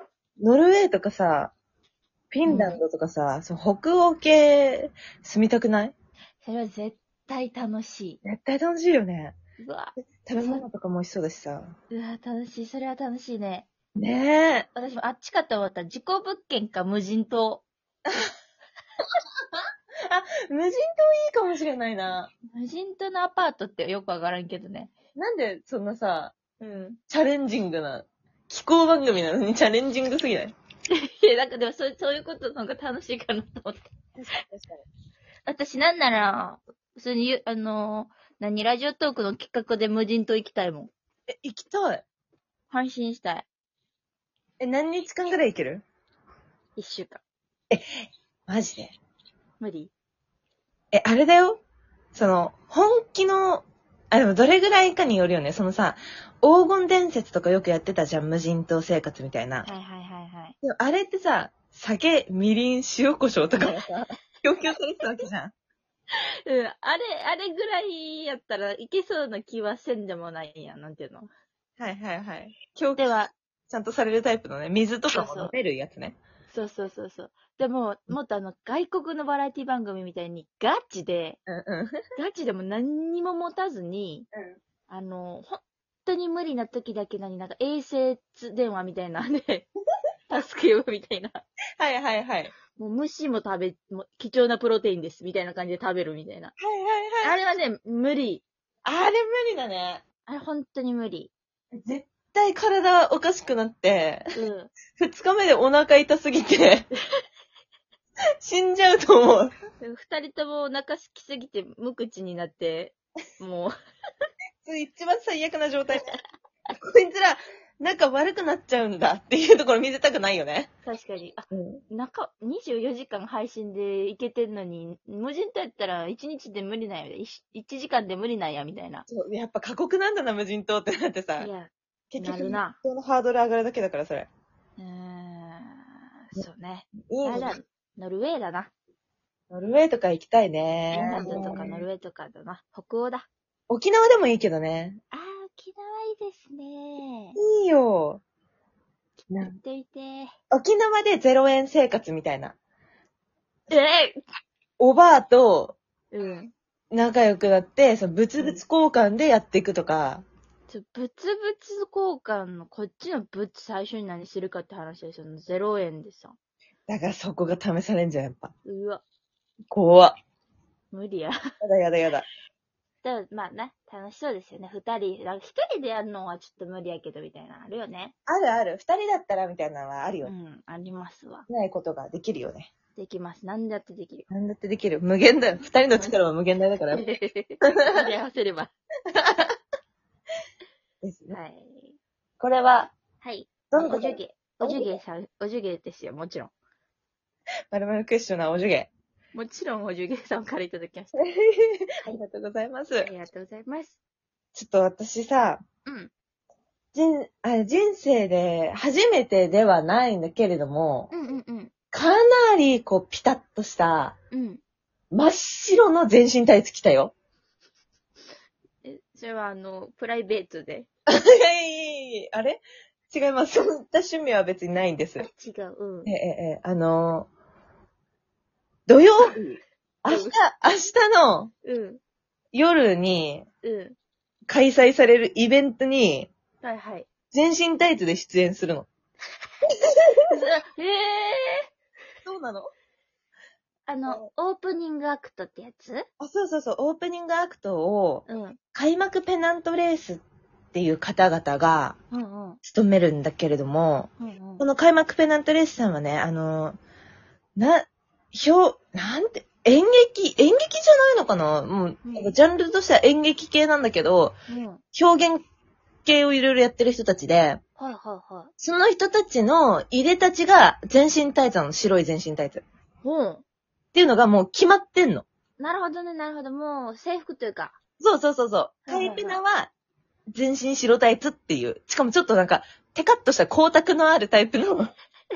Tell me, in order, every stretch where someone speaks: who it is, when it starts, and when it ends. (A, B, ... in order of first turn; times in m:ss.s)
0:00.4-0:01.5 A
0:02.3-0:05.9 A
0:02.5-0:02.8 B
0:06.4-0:08.2 B
0:08.2-0:09.4 A
0:09.6-0:10.6 B
0:10.2-0:11.8 A
0:11.9-0:13.7 B
0:14.0-0:14.7 A
0:14.8-0:17.6 B
0:19.5-0:22.3 A
0:22.5-0:24.9 B
0:25.2-0:26.4 A
0:26.6-0:27.0 B
0:27.1-0:30.6 A
0:30.9-0:33.9 B
0:34.2-0:34.8 A
0:35.5-0:40.9 B
0:41.3-0:42.0 A
0:42.7-0:43.5 B
0:44.6-0:45.8 A
0:46.8-0:47.2 B
0:48.5-0:49.0 A
0:49.6-0:49.9 B
0:50.9-0:51.6 A
0:52.1-0:59.7 A
0:59.6-1:00.6 B
1:00.6-1:05.5 A
1:06.5-1:11.3 B
1:11.8-1:13.1 A
1:13.0-1:13.3 B
1:13.7-1:16.2 A
1:15.1-1:15.5 B
1:16.5-1:21.4 B
1:21.5-1:22.0 A
1:22.2-1:24.3 B
1:24.9-1:29.7 B
1:30.3-1:31.4 B
1:31.8-1:32.5 A
1:32.8-1:36.5 B
1:36.6-1:37.5 A
1:37.2-1:38.4 B
1:38.8-1:40.0 A
1:40.3-1:41.3 B
1:41.8-1:44.4 A
1:44.3-1:44.7 B
1:44.9-1:46.9 A
1:48.4-1:49.5 A
1:49.8-1:53.7 B
1:54.6-1:56.1 A
1:56.8-2:00.7 A
2:00.8-2:09.1 B
2:01.5-2:01.8 A
2:09.1-2:11.5 A
2:11.4-2:12.8 B
2:12.1-2:14.3 A
2:14.8-2:18.7 B
2:17.1-2:17.5 A
2:19.5-2:21.8 A
2:20.9-2:23.3 B
2:23.7-2:25.0 A
2:25.1-2:27.4 B
2:27.4-2:28.2 A
2:29.2-2:30.3 B
2:29.3-2:29.6 A
2:30.5-2:32.6 A
2:33.7-2:34.2 B
2:34.8-2:35.8 A
2:36.1-2:36.5 B
2:36.9-2:40.2 A
2:40.7-2:46.4 B
2:46.9-2:48.5 A
2:48.6-2:49.0 B
2:49.7-2:50.2 A
2:50.9-2:51.4 B
2:51.6-2:52.3 A
2:53.0-2:58.2 B
2:58.3-3:00.3 A
3:00.2-3:01.5 B
3:01.5-3:02.7 A
3:03.0-3:04.3 B
3:04.3-3:07.0 A
3:06.9-3:08.7 B
3:09.2-3:09.5 A
3:11.0-3:11.4 A
3:11.3-3:12.0 B
3:12.4-3:12.9 A
3:13.2-3:16.5 B
3:13.7-3:14.9 A
3:17.7-3:18.9 A
3:19.3-3:21.2 B
3:21.2-3:23.1 A
3:23.0-3:24.0 B
3:24.5-3:25.6 A
3:25.9-3:26.1 B
3:26.9-3:31.1 A
3:31.1-3:31.7 B
3:31.9-3:34.2 A
3:34.3-3:34.6 B
3:35.1-3:37.1 A
3:38.8-3:40.9 B
3:41.1-3:45.3 A
3:45.2-3:46.1 B
3:46.1-3:47.3 A
3:48.9-3:51.5 A
3:50.1-3:50.3 B
3:51.6-3:52.0 B
3:52.5-3:53.5 A
3:53.6-3:54.0 B
3:54.5-3:56.3 A
3:56.6-3:57.1 B
3:57.3-3:58.9 A
4:00.3-4:01.7 B
4:02.2-4:02.7 A
4:03.9-4:06.1 B
4:06.2-4:12.0 A
4:08.3-4:08.6 B
4:12.1-4:12.6 B
4:12.6-4:16.8 A
4:14.2-4:14.7 B
4:17.6-4:24.4 A
4:22.0-4:22.4 B
4:24.5-4:24.8 B
4:24.9-4:25.4 A
4:26.0-4:27.6 A
4:27.8-4:28.5 B
4:28.6-4:32.6 A
4:33.0-4:33.4 B
4:33.9-4:35.3 A
4:35.6-4:37.8 B
4:38.0-4:39.7 A
4:38.9-4:39.4 B
4:40.3-4:44.9 A